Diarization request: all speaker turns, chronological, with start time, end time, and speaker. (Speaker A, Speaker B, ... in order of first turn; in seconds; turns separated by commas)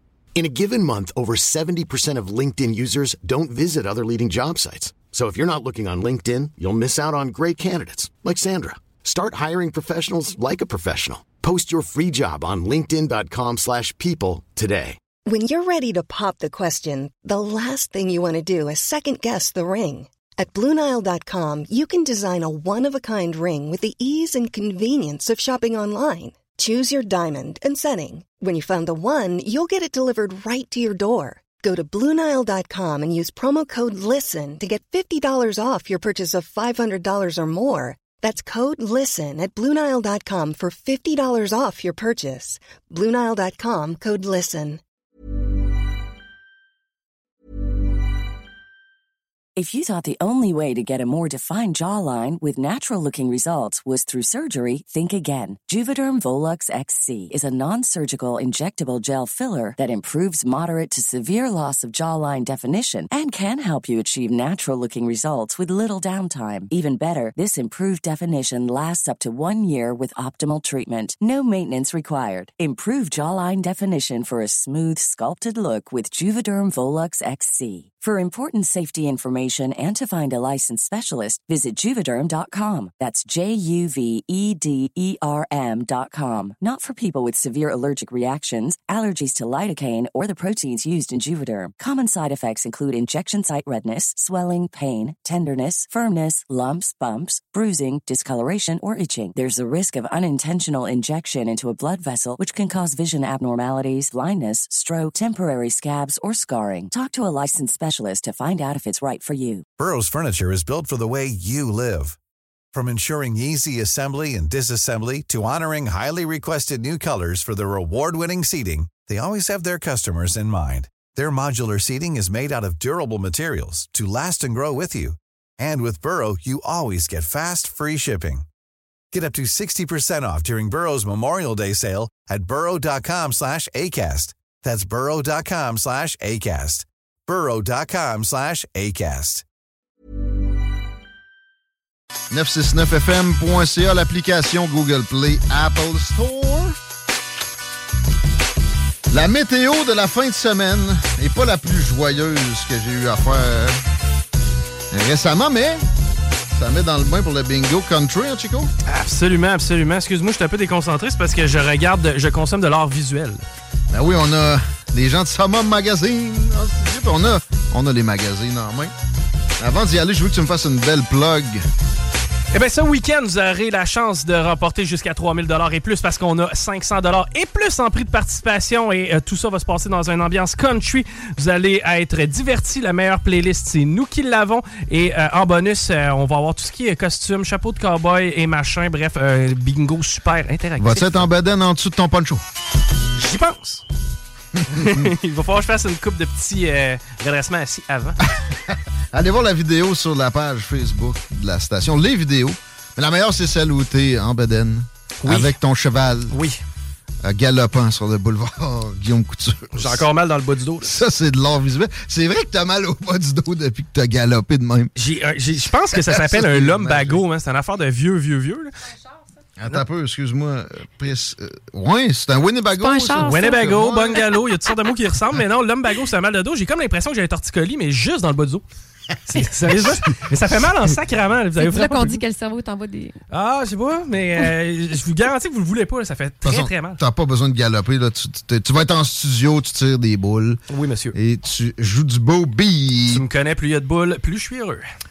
Speaker A: 0.3-15.0, Speaker B: 15.3-44.8, Speaker C: 49.6-109.6, Speaker D: 109.8-112.2, Speaker D: 112.7-128.5, Speaker D: 129.1-139.4, Speaker E: 142.3-146.8, Speaker E: 149.1-153.8, Speaker E: 154.9-155.8, Speaker E: 156.5-158.7, Speaker F: 158.9-163.4, Speaker E: 163.9-168.9, Speaker E: 169.6-171.6, Speaker F: 172.5-191.2, Speaker E: 190.8-192.4, Speaker F: 193.2-193.8, Speaker F: 194.7-198.2, Speaker E: 198.3-206.4, Speaker F: 206.3-206.6, Speaker E: 207.2-210.1, Speaker F: 209.8-210.9, Speaker E: 210.8-214.9, Speaker F: 214.9-218.7, Speaker E: 215.9-217.2, Speaker E: 219.6-224.2, Speaker G: 222.8-223.6, Speaker F: 223.2-228.6, Speaker F: 229.3-232.2, Speaker G: 231.6-233.2, Speaker F: 233.3-237.0, Speaker E: 236.4-240.6, Speaker F: 240.7-241.1, Speaker E: 241.1-243.2, Speaker F: 243.1-244.8